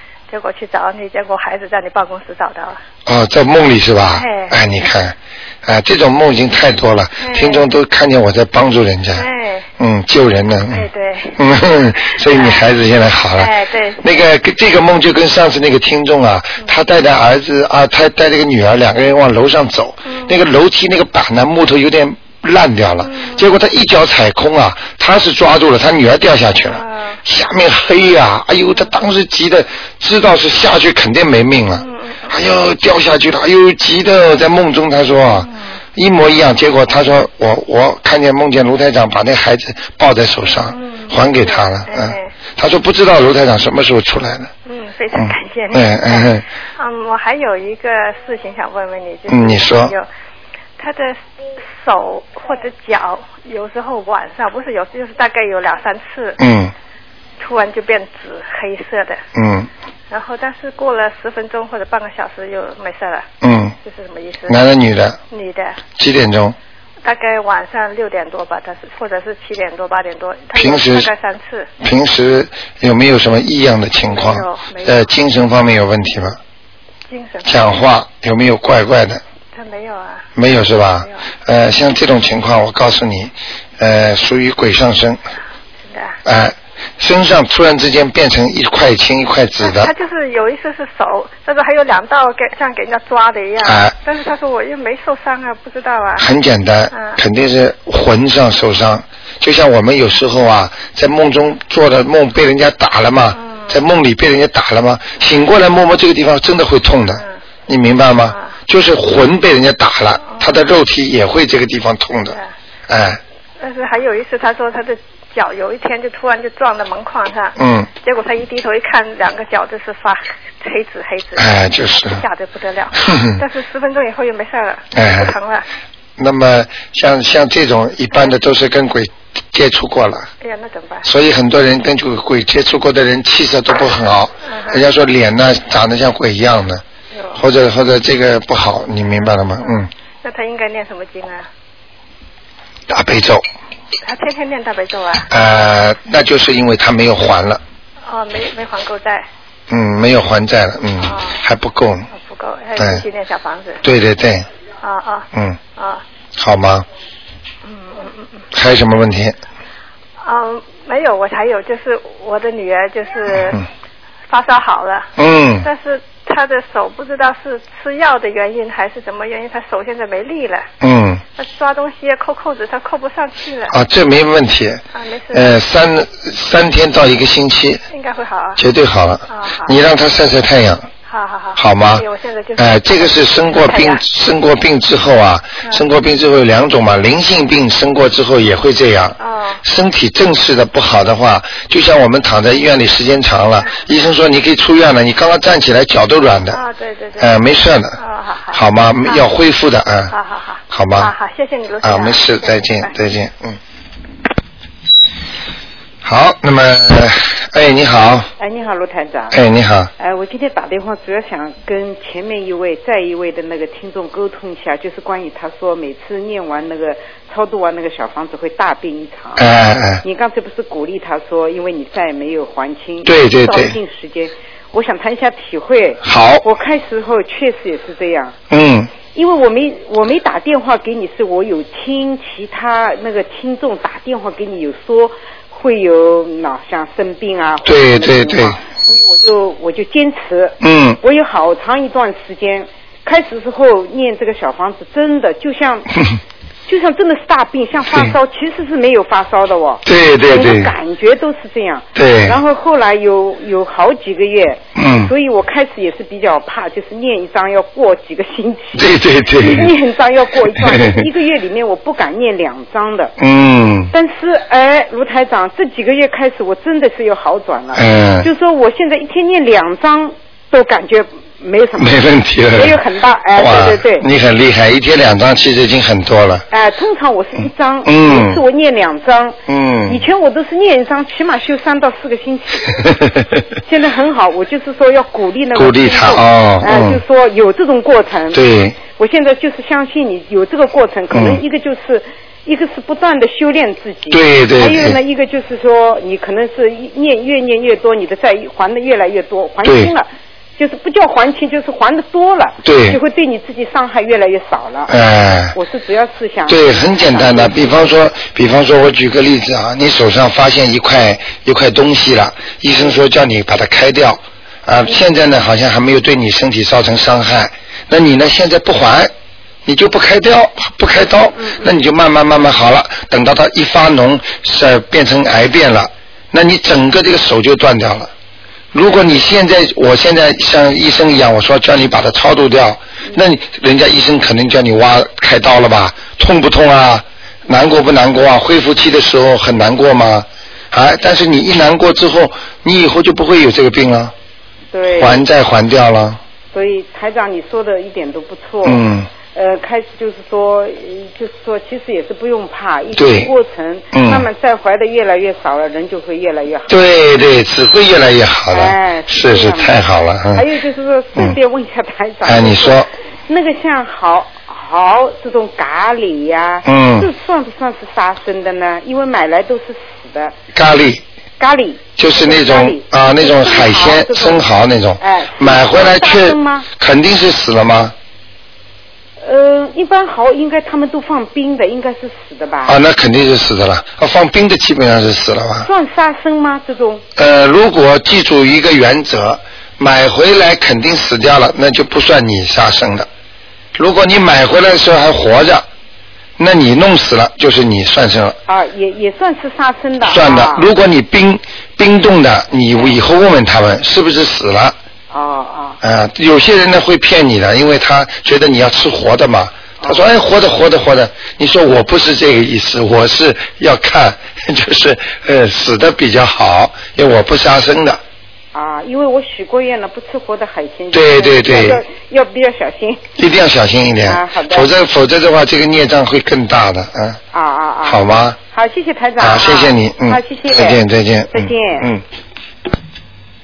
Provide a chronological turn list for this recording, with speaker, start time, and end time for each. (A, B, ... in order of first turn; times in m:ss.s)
0:00.3-0:02.8 A
0:03.1-0:09.3 B
0:04.1-0:04.6 A
0:07.2-0:07.7 A
0:09.1-0:09.7 A
0:09.8-0:44.5 B
0:10.7-0:11.4 A
0:12.2-0:12.7 A
0:13.4-0:14.0 A
0:20.0-0:20.4 A
0:23.0-0:23.5 A
0:26.6-0:27.2 A
0:31.7-0:32.4 A
0:35.3-0:35.8 A
0:40.4-0:42.4 A
0:44.6-0:50.1 A
0:45.2-0:46.4 B
0:49.3-0:49.9 B
0:50.8-0:56.4 A
0:56.4-0:56.7 B
0:57.4-0:59.2 A
0:59.3-0:59.7 B
1:00.1-1:03.3 A
1:03.4-1:03.8 B
1:03.8-1:04.6 A
1:04.5-1:05.2 B
1:05.3-1:05.8 A
1:06.0-1:06.6 B
1:07.0-1:11.7 A
1:10.5-1:11.1 B
1:11.8-1:16.4 B
1:14.0-1:15.2 A
1:17.1-1:17.7 A
1:17.4-1:19.2 B
1:19.5-1:21.2 A
1:20.4-1:25.2 B
1:25.8-1:26.2 A
1:26.2-1:29.9 B
1:29.6-1:36.3 A
1:33.6-1:34.0 B
1:36.2-1:52.4 B
1:36.9-1:37.2 A
1:43.3-1:43.8 A
1:48.3-1:48.6 A
1:50.2-1:50.6 A
1:52.9-1:53.2 B
1:53.6-2:05.6 A
1:57.6-1:57.9 B
2:01.4-2:02.2 B
2:03.0-2:03.4 B
2:04.9-2:05.3 B
2:06.2-2:10.3 B
2:10.4-2:11.1 A
2:11.0-2:16.8 B
2:14.4-2:14.9 A
2:17.1-2:17.4 A
2:17.4-2:19.9 B
2:19.0-2:21.5 A
2:22.9-2:23.4 B
2:24.0-2:25.3 A
2:25.3-2:27.6 B
2:28.1-2:29.3 A
2:29.7-2:32.1 B
2:31.0-2:31.4 A
2:32.1-2:33.8 A
2:32.8-2:33.0 B
2:33.8-2:34.5 B
2:34.8-2:36.0 A
2:35.3-2:35.6 B
2:36.4-2:36.8 B
2:37.6-2:38.4 A
2:38.5-2:39.4 B
2:40.2-2:43.6 A
2:43.3-2:43.6 B
2:44.3-2:50.7 A
2:45.2-2:45.7 B
2:50.8-2:51.2 B
2:51.4-2:53.8 A
2:53.7-2:57.8 B
2:54.9-2:55.6 A
2:57.9-2:58.6 A
2:58.6-3:00.9 B
2:59.3-2:59.8 A
3:01.1-3:04.0 A
3:01.6-3:02.0 B
3:02.6-3:16.6 B
3:09.2-3:09.6 A
3:16.5-3:17.4 A
3:17.2-3:18.0 B
3:18.0-3:19.3 A
3:18.5-3:20.1 B
3:20.1-3:22.9 A
3:20.7-3:21.1 B
3:21.8-3:23.6 B
3:26.0-3:28.3 B
3:28.4-3:29.3 C
3:29.3-3:29.9 B
3:30.0-3:39.4 C
3:39.4-3:40.0 B
3:40.0-3:48.4 C
3:43.0-3:43.8 B
3:46.0-3:46.4 B
3:48.5-3:48.9 B
3:49.0-4:05.9 C
3:57.6-3:58.6 B
4:00.6-4:01.0 B
4:06.7-4:18.8 C
4:09.8-4:10.7 B
4:12.0-4:12.4 B
4:14.8-4:15.1 B
4:18.8-4:19.7 B
4:19.4-4:23.1 C
4:20.8-4:21.0 B
4:23.2-4:23.9 B
4:23.9-4:32.0 C
4:27.8-4:28.3 B
4:31.8-4:32.8 B
4:32.5-4:34.1 C
4:33.3-4:36.4 B
4:36.5-4:42.8 C
4:37.9-4:38.4 B
4:39.5-4:40.0 B
4:42.8-4:43.2 B
4:43.6-5:04.9 C
4:45.6-4:47.0 B
4:48.3-4:48.8 B
4:51.1-4:51.4 B
4:54.1-4:55.0 B
4:59.6-4:59.9 B
5:02.6-5:03.0 B
5:04.9-5:05.6 B
5:05.5-5:08.0 C
5:06.5-5:19.1 B
5:19.6-5:28.1 B
5:28.7-5:44.1 B
5:44.7-5:45.2 C
5:44.9-5:46.2 B
5:46.5-5:56.7 C
5:48.6-5:49.1 B
5:53.0-5:53.3 B
5:53.9-5:54.2 B
5:56.7-6:00.4 B
5:58.5-5:59.7 C
6:00.3-6:10.4 C
6:02.2-6:02.9 B
6:06.6-6:07.1 B
6:10.5-6:11.0 B
6:11.4-6:14.4 C
6:12.0-6:17.9 B
6:15.0-6:16.7 C
6:19.2-6:22.8 C
6:22.7-6:25.7 B
6:25.6-6:27.0 C
6:27.2-6:33.1 B
6:33.8-6:35.6 B
6:36.4-6:38.4 B
6:38.5-6:40.7 C
6:40.0-6:44.8 B
6:45.1-6:45.8 C
6:45.8-6:58.0 B
6:49.8-6:50.0 C
6:58.5-7:03.0 C
7:00.9-7:01.8 B
7:03.2-7:07.2 B
7:04.1-7:04.7 C
7:07.3-7:11.9 C
7:07.8-7:08.4 B
7:09.2-7:12.0 B